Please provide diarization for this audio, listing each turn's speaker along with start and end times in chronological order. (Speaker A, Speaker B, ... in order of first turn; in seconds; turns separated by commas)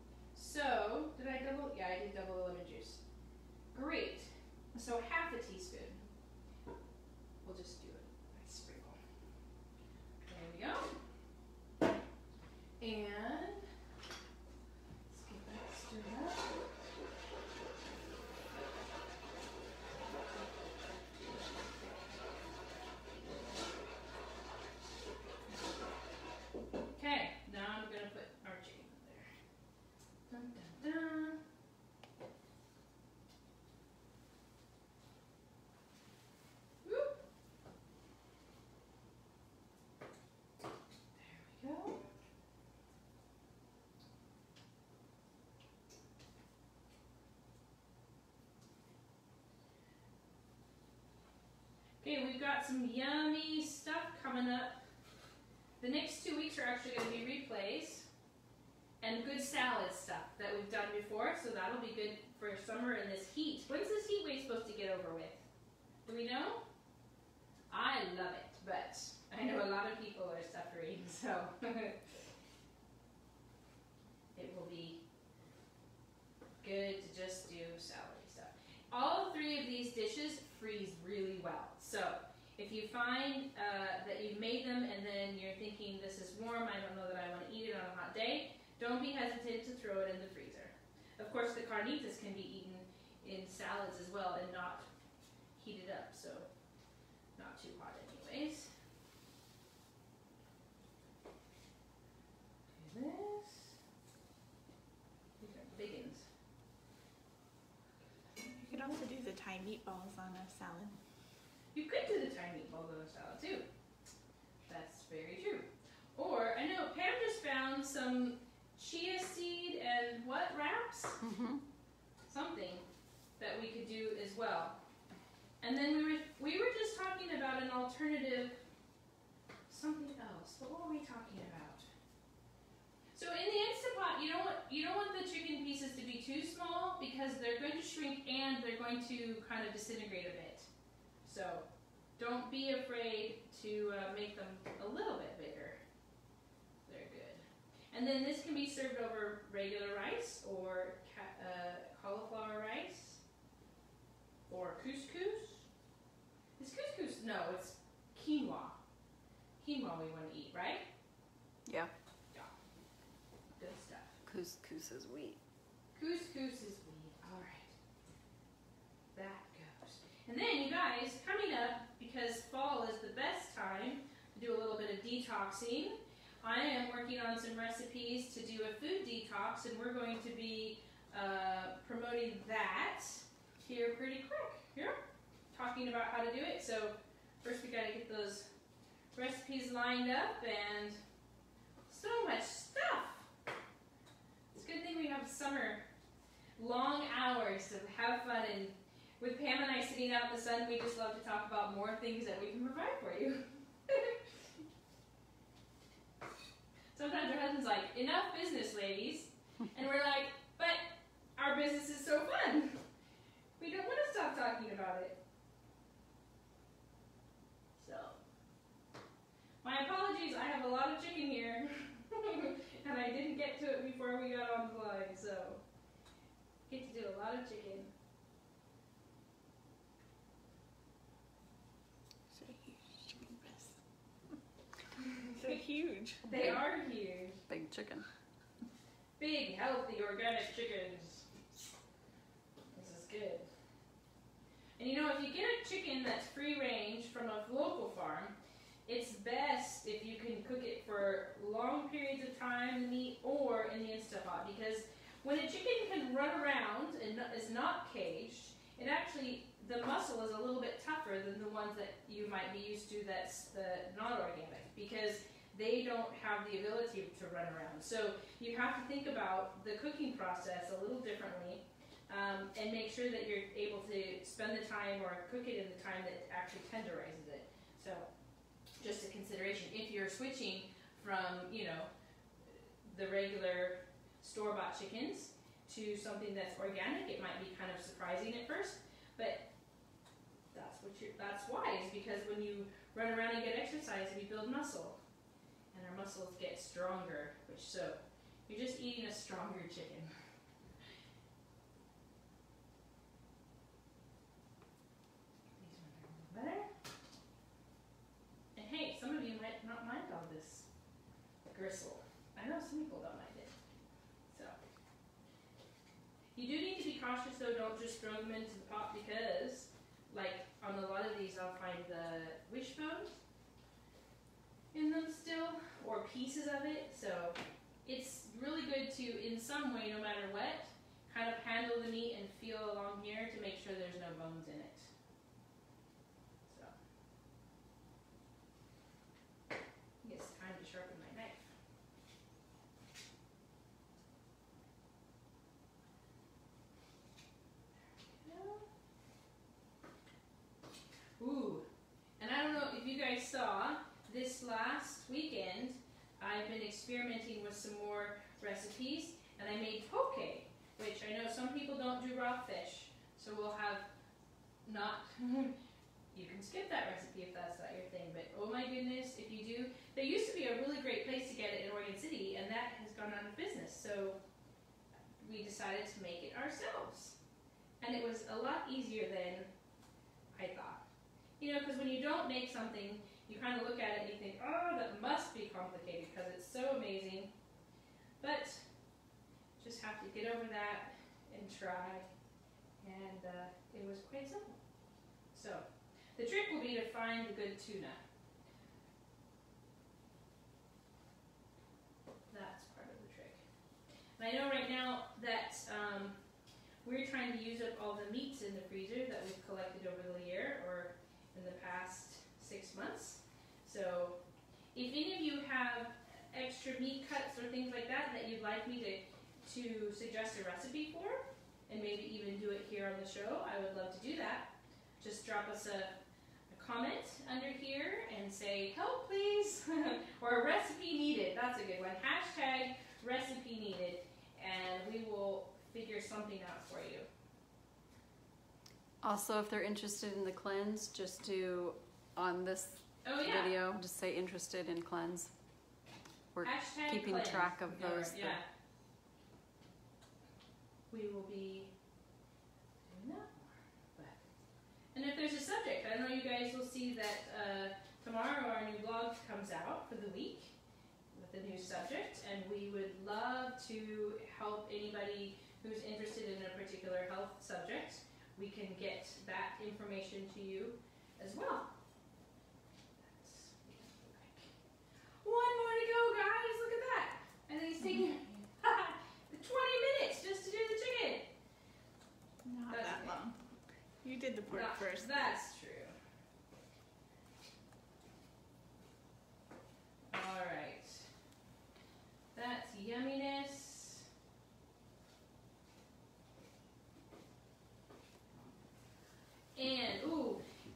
Speaker A: 0.3-3.0, Speaker A: 3.7-6.1, Speaker A: 7.4-9.0, Speaker A: 10.2-10.9, Speaker A: 12.8-13.7, Speaker A: 15.1-16.6, Speaker A: 26.9-29.3, Speaker A: 30.3-31.4, Speaker A: 36.8-37.2, Speaker A: 41.1-42.1, Speaker A: 52.0-54.8, Speaker A: 55.8-58.1, Speaker A: 59.0-65.5, Speaker A: 66.0-66.6, Speaker A: 67.7-72.0, Speaker A: 74.3-75.0, Speaker A: 76.6-94.9, Speaker A: 95.5-96.5, Speaker A: 97.3-98.7, Speaker A: 102.8-103.8, Speaker A: 105.4-106.3, Speaker B: 108.7-111.0, Speaker A: 111.7-113.7, Speaker A: 114.7-121.2, Speaker C: 121.2-121.6, Speaker A: 122.2-122.8, Speaker A: 123.4-124.8, Speaker A: 125.6-128.6, Speaker A: 129.7-131.9, Speaker A: 133.1-140.7, Speaker A: 141.2-141.7, Speaker A: 142.2-145.8, Speaker A: 146.8-153.2, Speaker A: 154.5-155.7, Speaker A: 156.6-158.8, Speaker A: 159.6-160.8, Speaker C: 161.7-161.9, Speaker A: 163.6-164.2, Speaker C: 164.2-165.4, Speaker A: 165.9-167.7, Speaker A: 169.1-185.0, Speaker A: 185.5-188.5, Speaker A: 189.1-191.0, Speaker A: 191.9-193.3, Speaker A: 194.5-195.8, Speaker A: 196.6-204.2, Speaker A: 206.9-210.8, Speaker A: 211.3-212.8, Speaker A: 213.6-215.2, Speaker A: 217.8-218.2, Speaker A: 219.6-225.6, Speaker A: 226.7-227.9, Speaker B: 232.3-233.8, Speaker A: 235.2-235.6, Speaker B: 235.3-236.3, Speaker A: 236.2-237.4, Speaker C: 236.3-236.6, Speaker C: 237.5-238.0, Speaker A: 239.2-241.3, Speaker A: 242.7-243.5, Speaker A: 244.8-278.1, Speaker A: 278.8-281.9, Speaker A: 282.5-289.5, Speaker A: 290.5-295.0, Speaker A: 295.7-300.1, Speaker A: 305.6-306.7, Speaker A: 308.5-310.7, Speaker A: 311.5-313.5, Speaker A: 314.3-314.6, Speaker A: 316.3-323.1, Speaker A: 324.7-334.9, Speaker A: 336.4-336.7, Speaker A: 340.0-341.5, Speaker A: 348.1-348.7, Speaker A: 351.2-351.6, Speaker A: 352.2-363.9, Speaker A: 364.6-365.6, Speaker A: 366.1-374.2, Speaker A: 375.2-377.2, Speaker A: 377.8-379.5, Speaker A: 380.3-380.8, Speaker A: 381.4-387.3, Speaker A: 388.2-388.6, Speaker A: 389.6-392.1, Speaker A: 392.8-394.6, Speaker A: 395.3-398.0, Speaker A: 402.3-403.4, Speaker A: 404.2-406.2, Speaker A: 406.8-414.2, Speaker A: 414.7-426.0, Speaker A: 426.5-437.1, Speaker C: 439.0-445.3, Speaker A: 443.0-443.6, Speaker C: 446.3-448.4, Speaker A: 446.4-448.4, Speaker A: 450.9-451.7, Speaker A: 452.9-454.2, Speaker A: 454.9-460.5, Speaker A: 461.1-471.7, Speaker A: 473.1-474.5, Speaker A: 475.2-481.3, Speaker B: 482.4-483.3, Speaker A: 482.7-483.2, Speaker B: 484.0-485.3, Speaker A: 484.5-485.9, Speaker A: 490.1-491.1, Speaker A: 492.3-494.1, Speaker A: 499.6-500.4